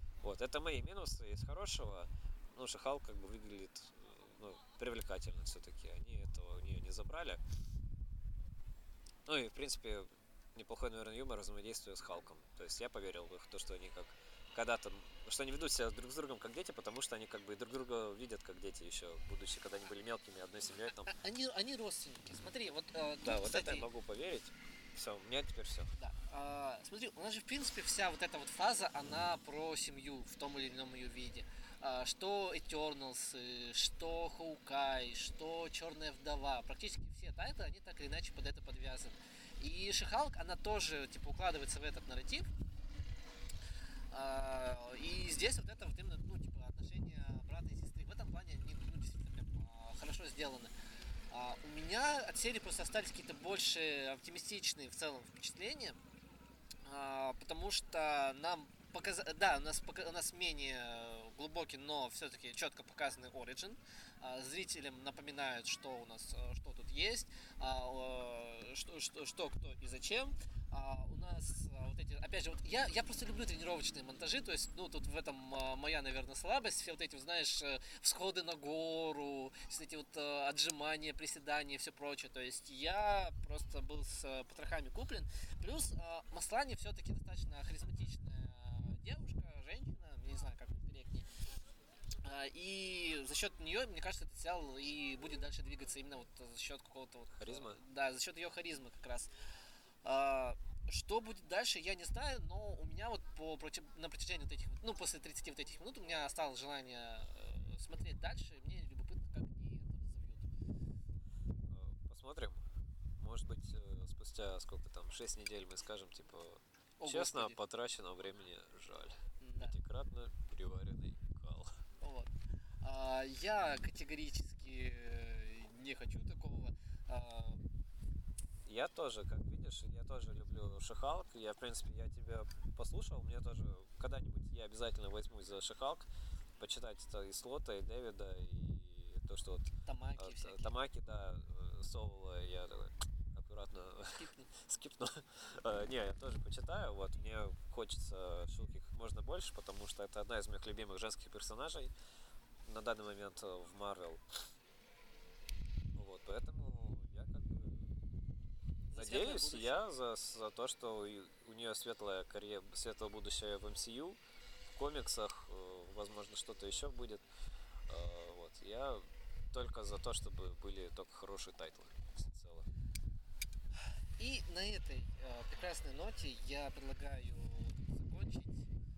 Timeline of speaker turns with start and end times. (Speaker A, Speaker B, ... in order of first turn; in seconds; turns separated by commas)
Speaker A: 0.2-7.4, Speaker A: 9.3-21.1, Speaker B: 21.1-23.9, Speaker A: 23.2-25.9, Speaker B: 26.0-42.5, Speaker B: 44.1-50.7, Speaker B: 51.3-56.0, Speaker B: 56.9-91.3, Speaker B: 92.2-99.3, Speaker A: 97.4-97.8, Speaker B: 100.0-110.5, Speaker A: 111.7-112.7, Speaker A: 113.2-121.8, Speaker B: 117.0-117.6, Speaker B: 119.4-119.7, Speaker B: 122.0-122.3, Speaker B: 122.8-127.6, Speaker A: 128.7-151.9, Speaker B: 139.8-140.7, Speaker B: 144.2-144.5, Speaker A: 152.6-154.2, Speaker A: 155.9-158.0, Speaker B: 158.9-159.8, Speaker A: 158.9-164.2, Speaker A: 164.8-167.3, Speaker A: 167.9-172.7, Speaker B: 174.2-178.7